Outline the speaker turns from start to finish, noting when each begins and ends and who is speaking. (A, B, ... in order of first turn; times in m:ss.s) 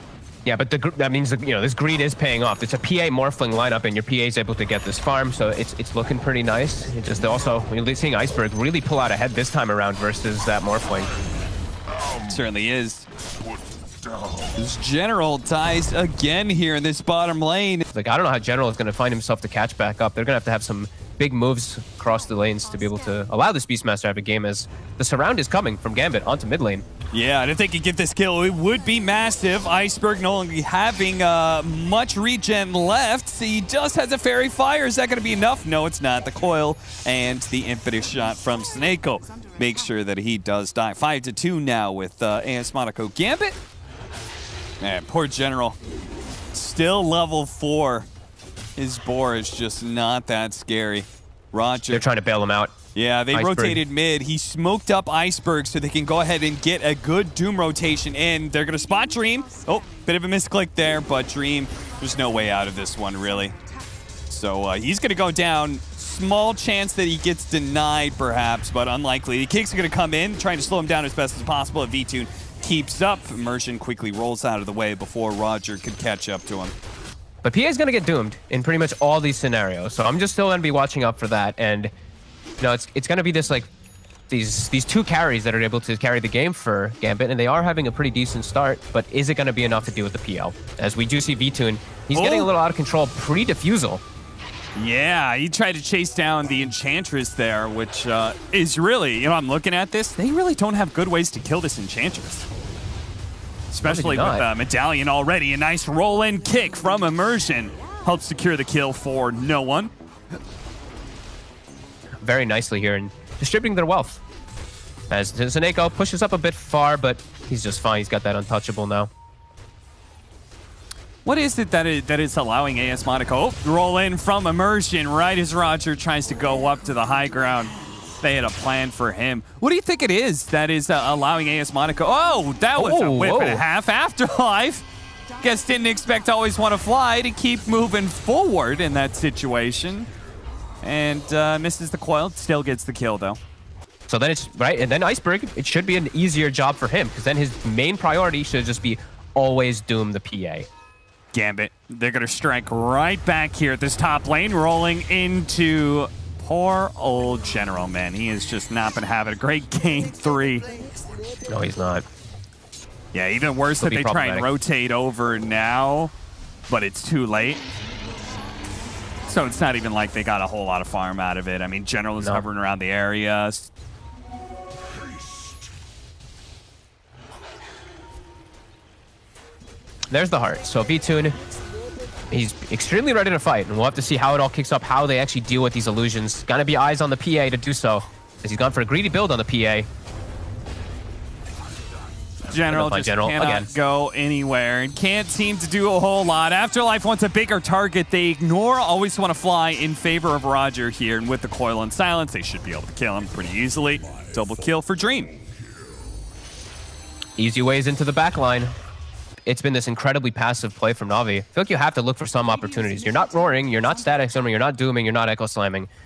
0:00.4-0:11.1 A
0:12.2-0:13.1 B
0:14.5-0:17.9 B
0:17.9-0:26.8 A
0:27.1-0:43.6 B
0:44.8-0:45.8 B
0:46.5-0:48.1 B
0:48.8-0:52.0 B
0:51.9-0:52.8 A
0:52.9-1:03.6 B
0:53.3-0:53.8 A
1:04.3-1:16.8 B
1:17.4-1:21.9 A
1:22.6-1:23.7 A
1:24.3-1:34.0 A
1:32.1-1:32.5 B
1:34.8-1:42.5 B
1:43.7-1:49.9 B
1:43.8-1:44.5 A
1:52.2-1:54.2 A
1:55.1-1:59.1 A
2:01.2-2:14.8 B
2:12.8-2:13.6 A
2:15.4-2:20.1 B
2:20.8-2:23.4 B
2:24.1-2:30.7 A
2:31.3-2:40.7 B
2:41.4-2:42.0 A
2:43.1-2:46.1 B
2:43.8-2:44.5 A
2:46.7-2:47.6 B
2:49.3-2:53.7 B
2:52.2-2:52.4 A
3:00.1-3:01.4 A
3:02.3-3:09.9 A
3:12.5-3:25.3 B
3:12.7-3:13.7 A
3:27.4-3:28.8 A
3:29.5-3:35.9 A